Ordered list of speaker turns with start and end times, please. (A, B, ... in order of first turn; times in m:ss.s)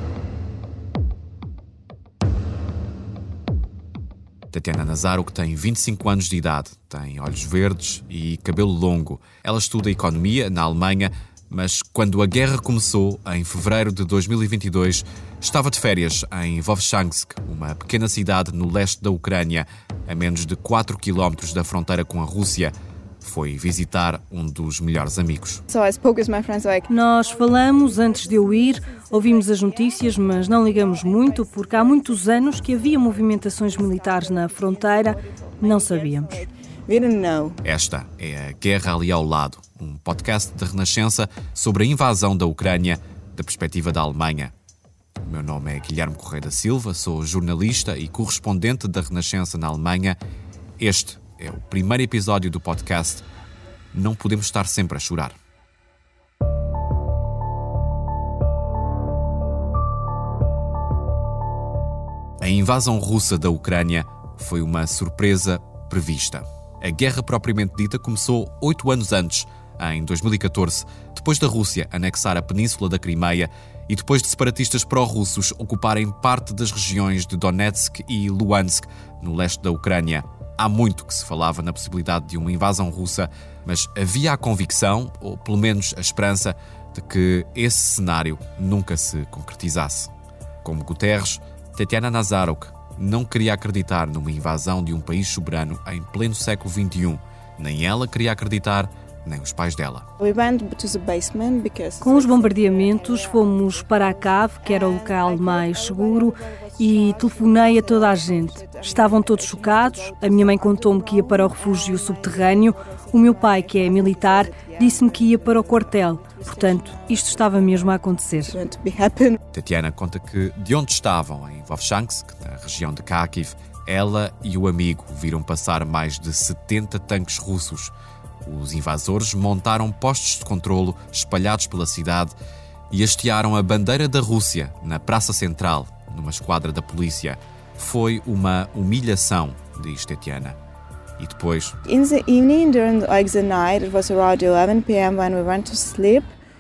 0:04.5-0:25.6 A
0:25.7-0:26.9 B
0:26.9-0:36.4 C
0:28.8-0:29.4 B
0:30.4-0:32.6 B
0:33.1-0:37.6 B
0:37.6-0:44.5 A
0:45.2-0:50.2 A
0:50.8-0:53.2 A
0:53.9-0:55.4 A
1:02.4-1:30.1 A
1:30.6-1:40.1 A
1:40.2-1:58.0 B
1:42.0-1:58.6 C
1:58.5-1:59.4 B
1:59.5-2:07.9 A
2:08.4-2:12.4 A
2:12.9-2:20.6 A
2:21.2-2:21.8 A
2:21.9-2:26.3 B